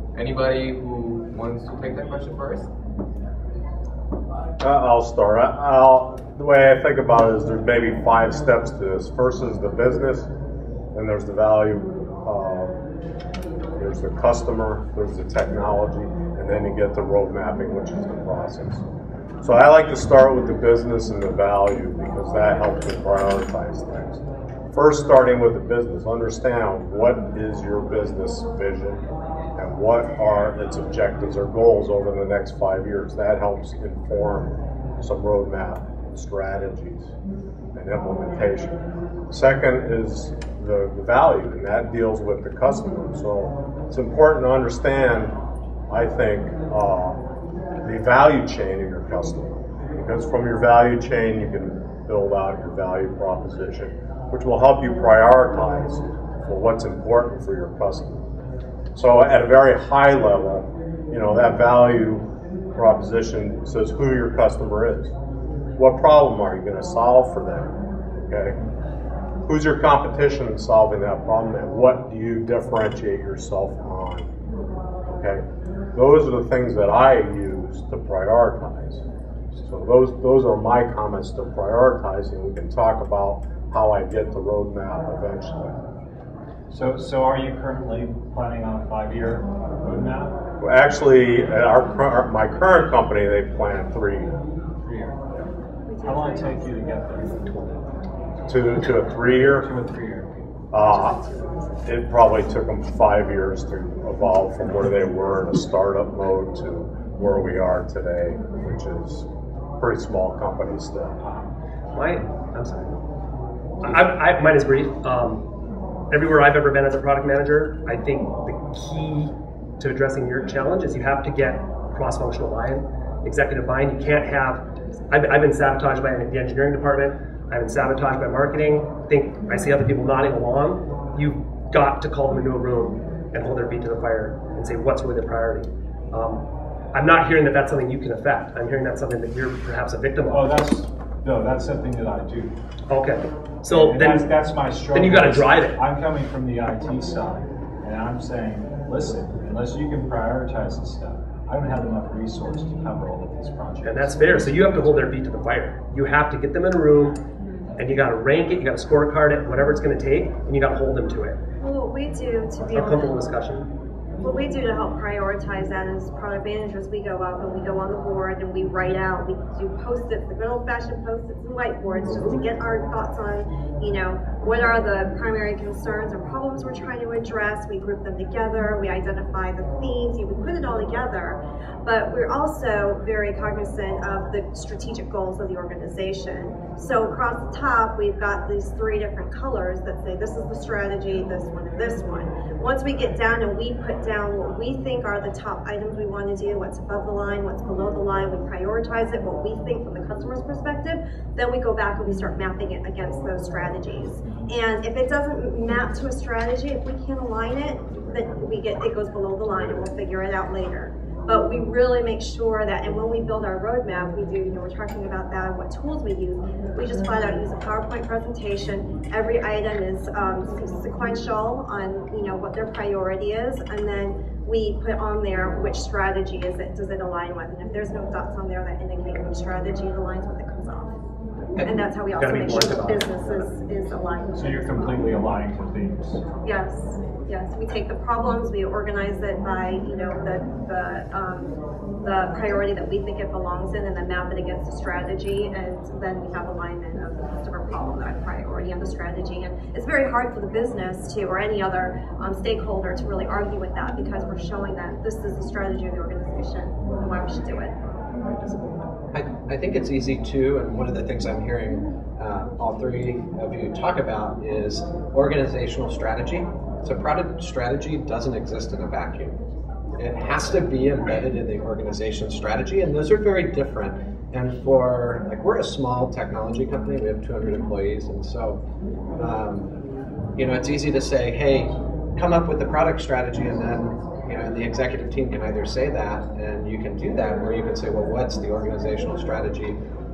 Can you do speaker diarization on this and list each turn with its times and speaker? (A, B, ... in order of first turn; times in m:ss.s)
0:00.2-0:02.7 A
0:04.6-0:10.3 B
0:10.9-0:12.8 B
0:13.8-0:18.8 B
0:19.4-0:29.0 B
0:29.6-0:37.1 B
0:37.8-0:38.8 B
0:39.3-0:45.3 B
0:45.9-0:47.2 B
0:47.8-0:58.2 B
0:59.0-1:05.1 B
1:05.8-1:07.7 B
1:08.3-1:08.6 B
1:09.5-1:14.3 B
1:15.1-1:15.4 B
1:16.0-1:25.8 B
1:26.7-1:30.4 C
1:30.6-1:34.3 B
1:34.8-1:35.2 C
1:35.9-1:36.7 D
1:36.0-1:37.9 C
1:38.5-1:39.7 B
1:39.2-1:40.5 C
1:40.7-1:41.2 B
1:41.9-1:49.3 B
1:49.8-1:51.2 B
1:51.9-1:52.9 E
1:53.8-1:55.4 E
1:56.1-2:20.6 E
2:20.3-2:22.6 C
2:22.9-2:24.2 E
2:23.7-2:35.0 C
2:24.9-2:25.8 E
2:33.8-2:37.2 E
2:37.8-2:41.4 E
2:41.6-2:43.2 D
2:42.7-2:43.7 E
2:44.2-3:51.0 D
3:51.6-3:54.9 D
3:52.2-3:53.5 E
3:54.3-3:56.2 C
3:56.4-4:17.7 D
4:19.1-4:29.4 F
4:30.0-4:38.6 F
4:39.2-4:39.7 F
4:40.4-4:49.8 F